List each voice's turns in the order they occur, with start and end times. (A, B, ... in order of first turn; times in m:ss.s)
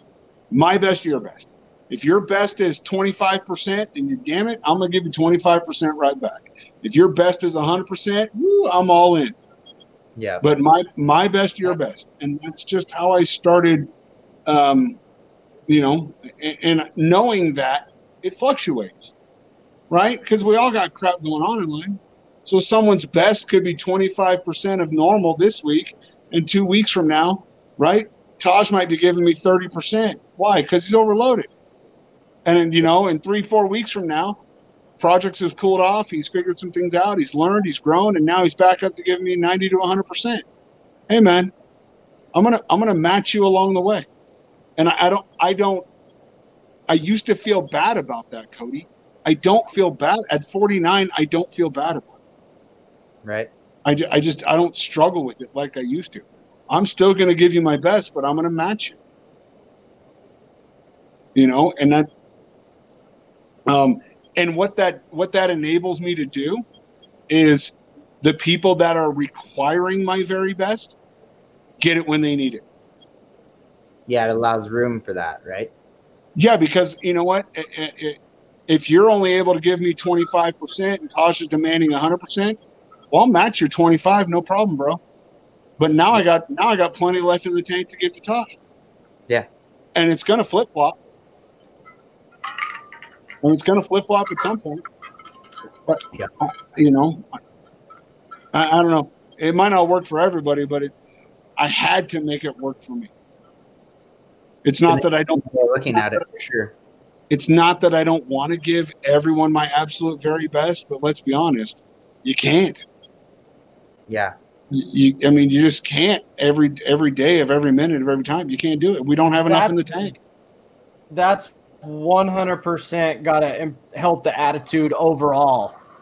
0:00.5-0:09.4 A
0:10.2-0:10.4 B
0:10.4-0:13.9 A
0:14.4-0:15.0 A
0:15.7-0:19.1 A
0:19.9-0:31.5 A
0:32.4-0:34.4 A
0:35.0-0:40.4 A
0:41.1-0:41.5 A
0:42.3-0:44.0 A
0:44.8-0:45.8 A
0:46.9-0:52.1 A
0:53.2-0:53.5 B
0:53.8-0:59.0 A
1:01.3-1:02.1 A
1:03.7-1:06.6 A
1:07.3-1:10.9 A
1:11.8-1:12.6 A
1:14.1-1:15.7 B
1:16.4-1:22.6 A
1:23.1-1:25.0 A
1:25.8-1:28.5 A
1:29.9-1:31.0 A
1:33.4-1:34.8 A
1:35.9-1:37.3 A
1:38.5-1:40.9 A
1:41.6-1:43.1 A
1:44.6-1:45.4 A
1:44.8-1:46.7 B
1:45.9-1:46.2 A
1:47.3-1:52.8 A
1:54.1-1:54.3 B
1:54.7-2:00.2 A
1:59.5-1:59.8 C
2:01.1-2:05.7 C